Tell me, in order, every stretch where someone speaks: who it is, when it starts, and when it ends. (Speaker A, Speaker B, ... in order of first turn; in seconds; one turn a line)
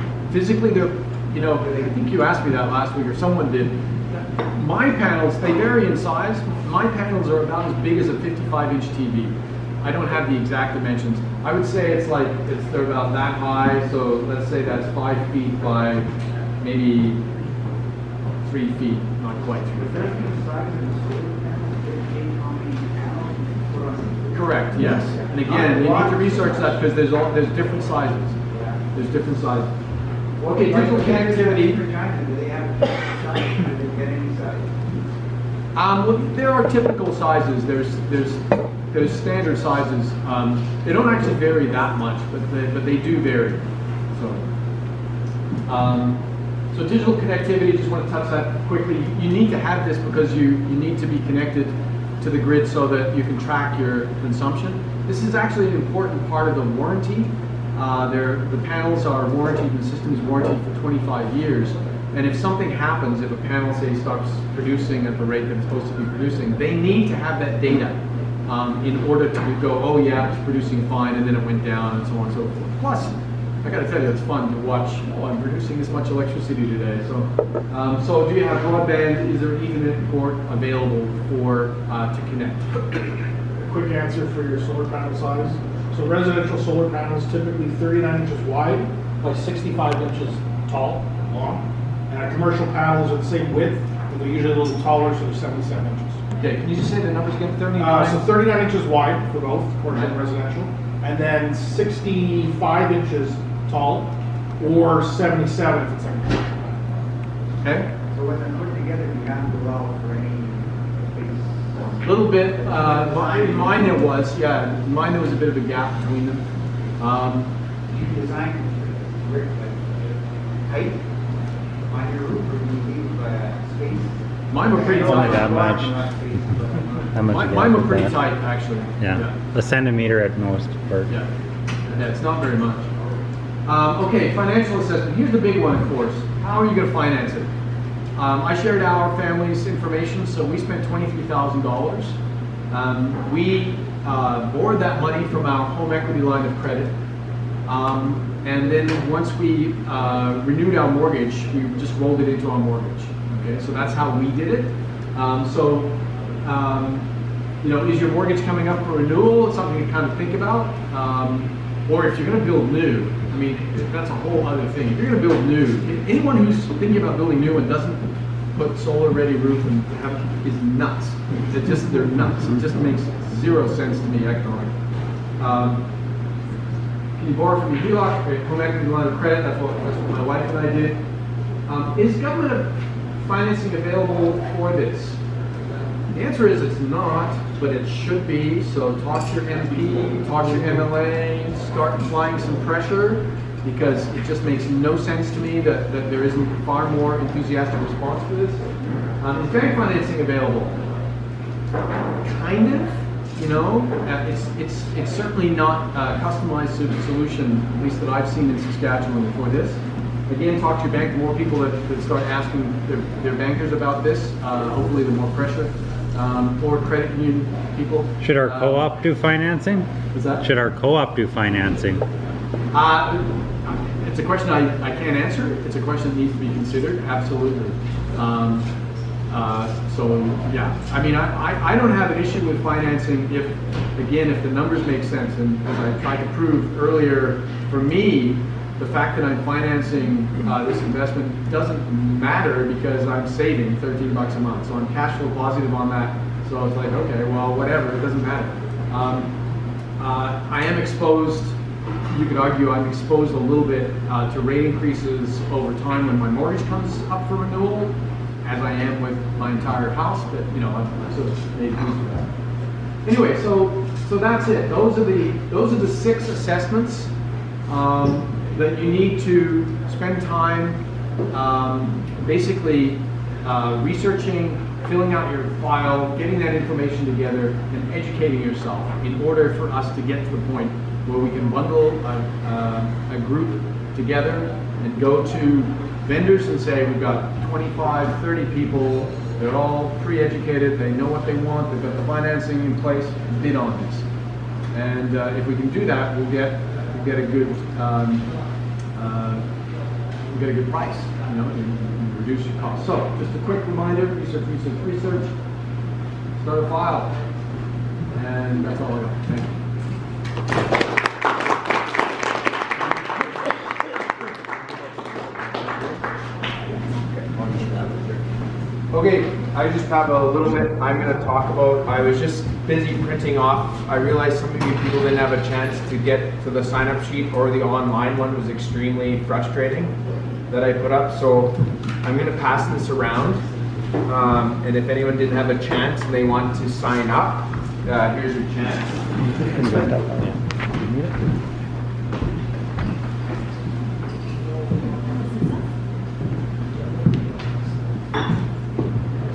Speaker A: 0.3-16.1
Speaker A: 16.6-17.2
Speaker A: 18.4-20.1
Speaker B: 19.8-26.8
Speaker A: 24.3-28.4
Speaker B: 28.5-28.8
Speaker A: 28.9-29.7
Speaker B: 30.4-34.7
Speaker A: 30.4-31.8
Speaker A: 35.7-44.4
Speaker A: 45.7-46.2
Speaker A: 46.7-82.8
Speaker C: 83.6-96.2
Speaker A: 96.4-98.3
Speaker C: 97.7-107.0
Speaker A: 107.6-107.9
Speaker B: 108.1-114.0
Speaker A: 112.0-116.4
Speaker A: 117.0-117.5
Speaker B: 117.9-121.1
Speaker B: 121.9-127.1
Speaker A: 124.5-125.6
Speaker D: 125.0-126.0
Speaker D: 127.1-128.1
Speaker A: 127.3-129.4
Speaker D: 129.0-131.1
Speaker A: 131.8-132.9
Speaker A: 133.7-137.5
Speaker A: 138.2-142.2
Speaker A: 142.7-146.9
Speaker A: 147.7-157.1
Speaker A: 157.6-174.7
Speaker A: 175.4-175.8
Speaker A: 177.2-181.0
Speaker A: 181.7-185.2
Speaker A: 186.1-198.6
Speaker A: 199.2-200.8
Speaker A: 202.2-218.9
Speaker D: 218.2-219.9
Speaker A: 220.1-220.4
Speaker D: 220.4-222.0
Speaker A: 222.7-228.7
Speaker A: 229.3-249.3
Speaker A: 250.0-251.6
Speaker A: 252.1-262.3
Speaker A: 263.0-267.1
Speaker A: 267.7-270.8
Speaker A: 271.3-294.1
Speaker A: 294.7-298.3
Speaker A: 298.9-299.4
Speaker A: 300.3-305.3
Speaker A: 306.4-307.1
Speaker A: 308.1-309.5
Speaker B: 317.5-318.2
Speaker E: 318.9-329.9
Speaker E: 330.5-333.4
Speaker E: 334.1-338.9
Speaker D: 339.6-340.0